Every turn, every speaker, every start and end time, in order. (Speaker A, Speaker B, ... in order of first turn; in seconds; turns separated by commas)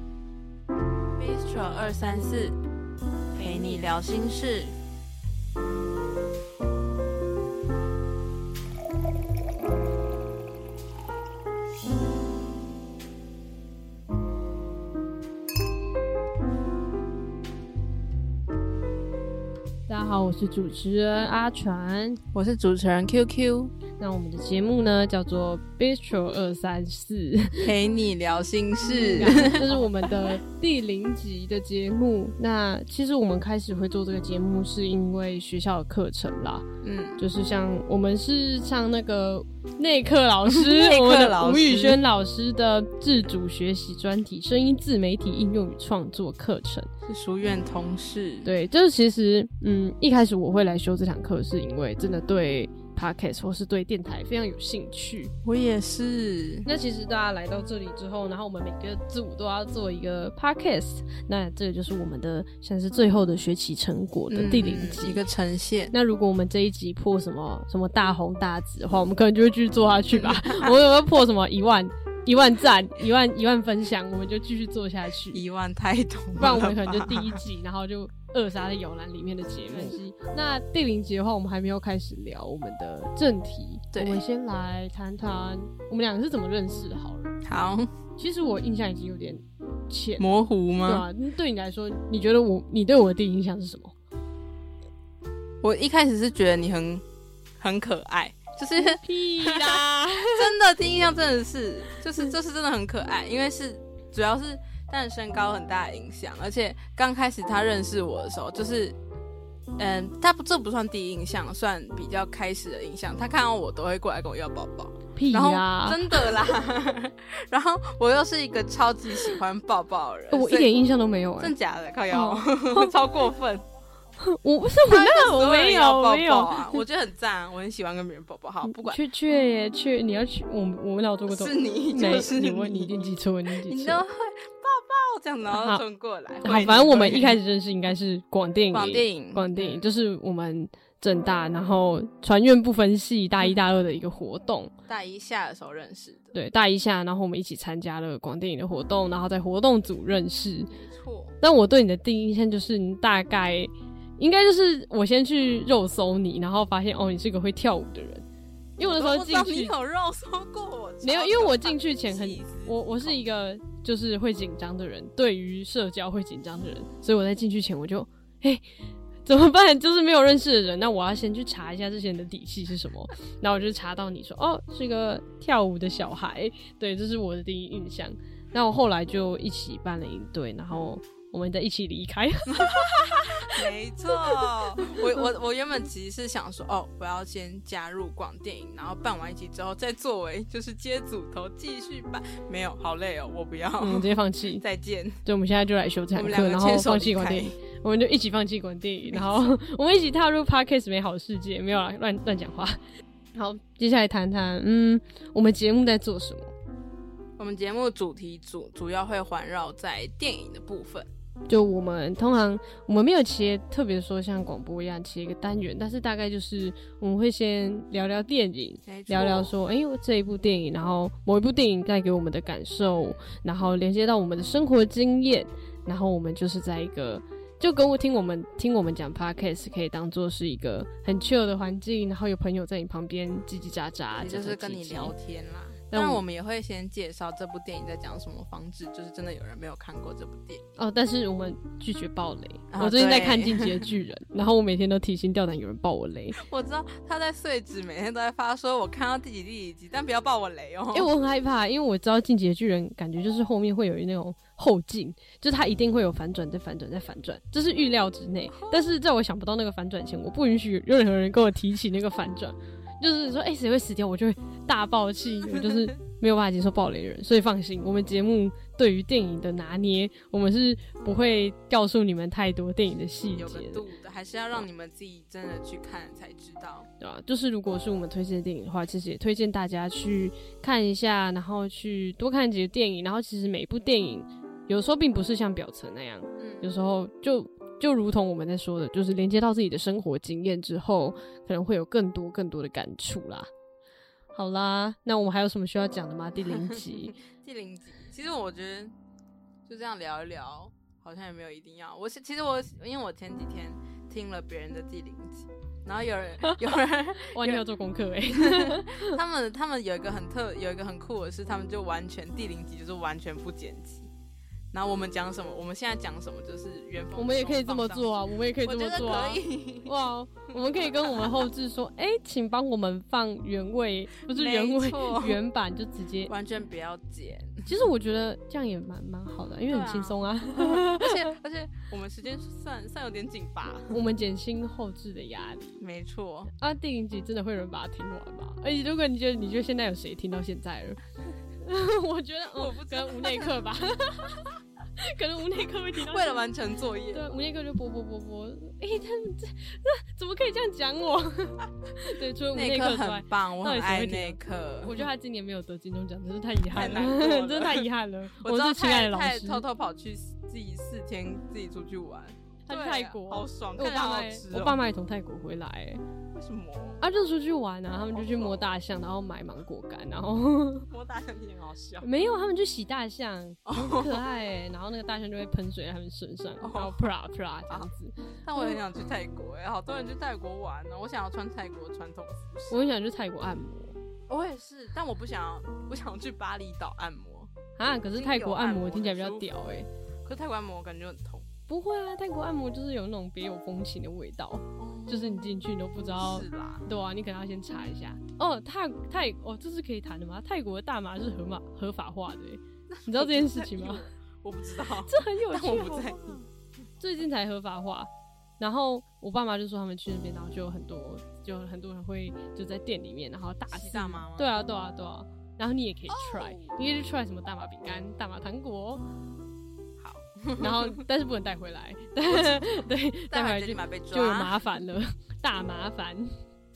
Speaker A: 1.2-2.6, Speaker A: 3.3-4.8, Speaker B: 19.9-22.2, Speaker A: 22.3-23.7, Speaker B: 24.0-27.7, Speaker A: 27.6-30.3, Speaker B: 28.9-36.6, Speaker A: 36.8-37.2, Speaker B: 37.2-46.9, Speaker A: 40.5-42.0, Speaker A: 47.0-48.5, Speaker B: 48.4-55.3, Speaker A: 55.4-56.7, Speaker B: 56.6-65.2, Speaker A: 64.3-65.9, Speaker B: 65.9-75.4, Speaker A: 70.1-70.8, Speaker A: 75.3-77.4, Speaker B: 76.4-87.3, Speaker A: 79.7-80.0, Speaker A: 83.9-84.2, Speaker A: 87.4-87.9, Speaker B: 88.2-90.2, Speaker A: 90.2-91.1, Speaker B: 90.8-93.9, Speaker A: 95.6-97.0, Speaker A: 97.6-109.0, Speaker B: 98.7-100.5, Speaker A: 109.8-120.7, Speaker B: 115.1-116.3, Speaker B: 120.3-121.5, Speaker A: 121.4-123.7, Speaker B: 122.1-122.9, Speaker B: 124.2-126.8, Speaker A: 124.9-129.0, Speaker B: 128.7-134.0, Speaker A: 131.3-133.1, Speaker A: 133.6-137.4, Speaker B: 135.5-135.8, Speaker B: 136.4-144.7, Speaker A: 138.7-139.8, Speaker A: 144.9-146.3, Speaker B: 146.3-150.7, Speaker A: 150.7-151.3, Speaker B: 151.4-158.2, Speaker B: 158.8-159.7, Speaker A: 158.8-163.2, Speaker B: 161.0-168.6, Speaker B: 169.2-183.6, Speaker A: 182.7-195.2, Speaker B: 193.8-194.6, Speaker B: 195.2-202.8, Speaker A: 196.1-197.6, Speaker A: 199.1-199.6, Speaker B: 203.3-206.5, Speaker A: 207.4-211.1, Speaker B: 211.5-235.1, Speaker A: 218.8-219.5, Speaker A: 222.9-223.2, Speaker A: 234.2-240.6, Speaker B: 235.9-236.2, Speaker B: 240.8-246.4, Speaker A: 242.7-243.9, Speaker A: 246.3-251.1, Speaker B: 250.9-273.8, Speaker A: 258.5-258.8, Speaker A: 273.3-276.9, Speaker B: 277.0-293.5, Speaker A: 286.4-286.7, Speaker B: 294.3-297.1, Speaker A: 296.5-298.9, Speaker A: 299.6-307.6, Speaker B: 307.2-309.2, Speaker A: 308.3-314.1, Speaker A: 314.7-320.1, Speaker B: 317.1-326.3, Speaker A: 320.7-321.4, Speaker A: 324.3-325.4, Speaker A: 326.2-327.7, Speaker B: 327.6-331.3, Speaker A: 329.7-333.9, Speaker B: 333.9-335.7, Speaker A: 335.8-336.5, Speaker B: 336.6-341.0, Speaker B: 341.6-346.5, Speaker A: 342.5-343.7, Speaker A: 346.0-347.3, Speaker B: 347.1-359.6, Speaker A: 352.5-355.0, Speaker A: 356.7-364.8, Speaker B: 362.7-366.0, Speaker A: 366.3-367.0, Speaker B: 367.0-370.9, Speaker A: 368.1-368.6, Speaker A: 370.9-372.1, Speaker B: 372.0-378.8, Speaker A: 373.6-374.2, Speaker A: 376.6-377.1, Speaker A: 378.4-382.8, Speaker B: 382.7-383.9, Speaker A: 384.3-387.5, Speaker B: 387.8-389.9, Speaker A: 388.1-391.4, Speaker B: 391.7-404.0, Speaker A: 394.8-396.8, Speaker A: 402.9-406.5, Speaker B: 404.9-406.3, Speaker B: 407.0-408.1, Speaker B: 408.6-419.1, Speaker A: 413.7-414.5, Speaker A: 416.1-416.8, Speaker A: 420.0-421.0, Speaker B: 420.6-426.3, Speaker A: 422.2-424.7